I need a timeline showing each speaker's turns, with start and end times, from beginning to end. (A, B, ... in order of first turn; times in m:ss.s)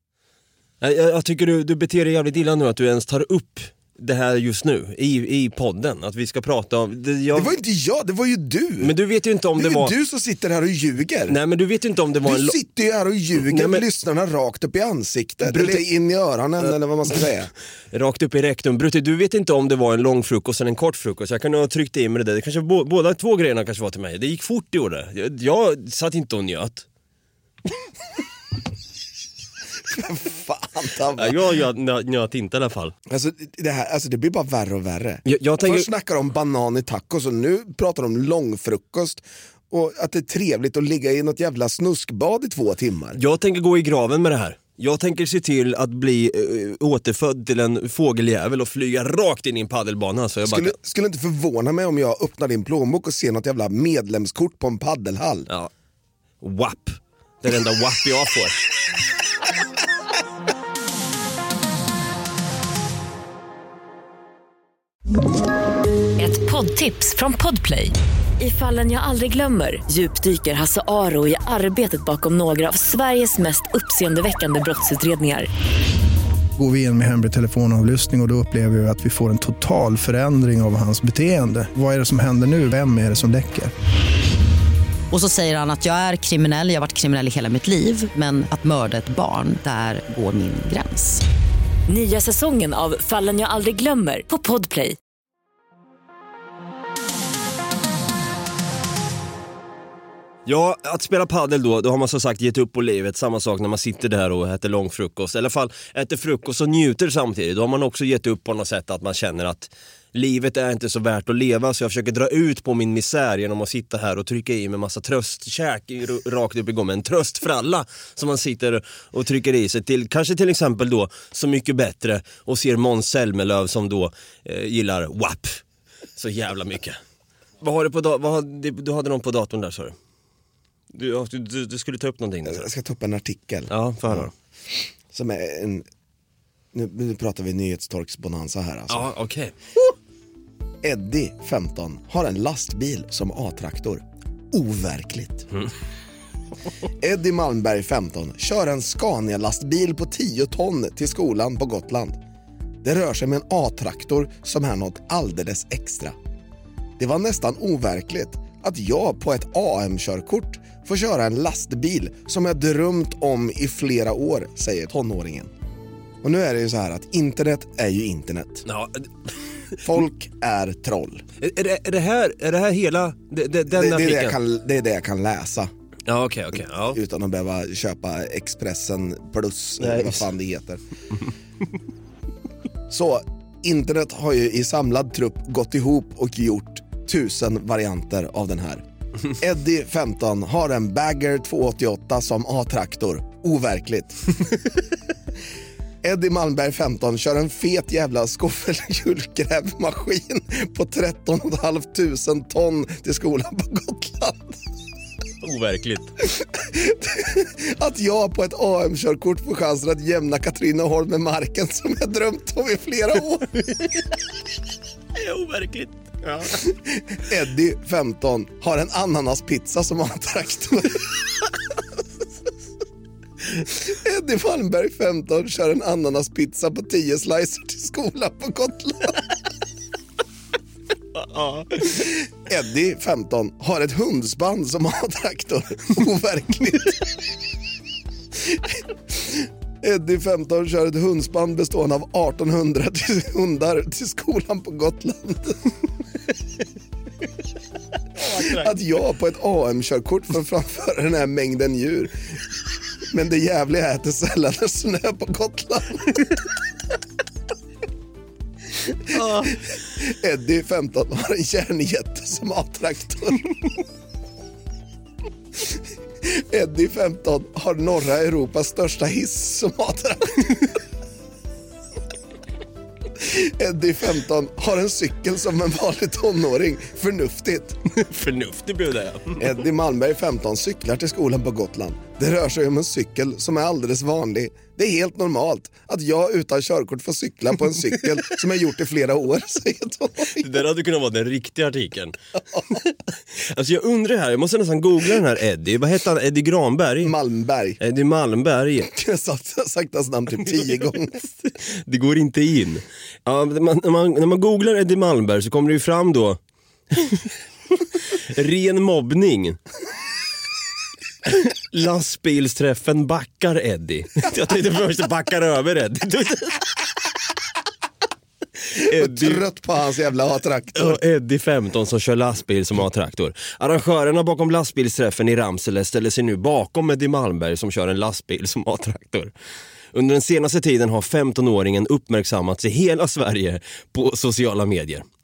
0:00.8-0:07.5 A
0:07.3-0:09.0 B
0:08.8-0:09.9 A
0:09.6-0:11.4 B
0:11.3-0:12.6 A
0:12.2-0:17.5 B
0:13.4-0:13.8 A
0:15.4-0:15.8 A
0:17.9-0:26.8 A
0:29.8-0:31.5 B
0:31.2-0:32.9 A
0:33.1-0:43.2 B
0:35.2-0:35.9 A
0:43.2-0:50.7 A
0:50.4-0:55.5 B
0:56.4-0:58.6 A
1:06.2-1:15.5 C
1:16.6-1:23.7 D
1:25.1-1:31.2 E
1:31.9-1:35.0 C
1:40.4-2:05.6 A
2:06.2-2:07.0 A
2:07.6-2:09.9 A
2:10.9-2:12.7 A
2:12.4-2:15.9 B
2:13.7-2:14.3 A
2:16.7-2:19.1 B
2:18.9-2:19.6 A
2:20.8-2:25.4 B
2:27.0-2:32.2 B
2:32.8-2:36.2 B
2:37.0-2:45.5 B
2:46.2-2:48.6 B
2:48.6-2:49.8 A
2:49.8-2:51.2 B
2:51.4-2:54.4 A
2:53.7-2:55.7 B
2:56.1-2:57.0 A
2:56.9-3:00.8 B
2:59.8-3:00.2 A
3:02.9-3:14.6 B
3:16.0-3:24.6 B
3:25.4-3:26.1 A
3:26.2-3:33.7 B
3:35.1-3:36.6 A
3:36.5-3:41.5 B
3:43.4-3:49.3 B
3:51.1-3:52.0 A
3:51.8-3:57.2 B
3:58.3-4:05.7 B
4:08.2-4:12.4 B
4:13.1-4:16.4 B
4:18.8-4:23.6 B
4:19.1-4:19.5 A
4:25.5-4:30.8 B
4:33.2-4:37.8 B
4:37.9-4:39.5 A
4:39.4-4:50.6 B
4:50.3-4:52.1 A
4:53.4-4:57.1 A
4:57.0-4:57.8 B
4:57.8-4:58.9 A
4:58.9-5:01.2 B
5:01.4-5:06.4 A
5:06.9-5:07.3 A
5:08.0-5:09.6 A
5:11.2-5:16.6 A
5:18.7-5:19.4 A
5:18.8-5:21.0 B
5:20.7-5:29.3 A
5:29.9-5:35.0 A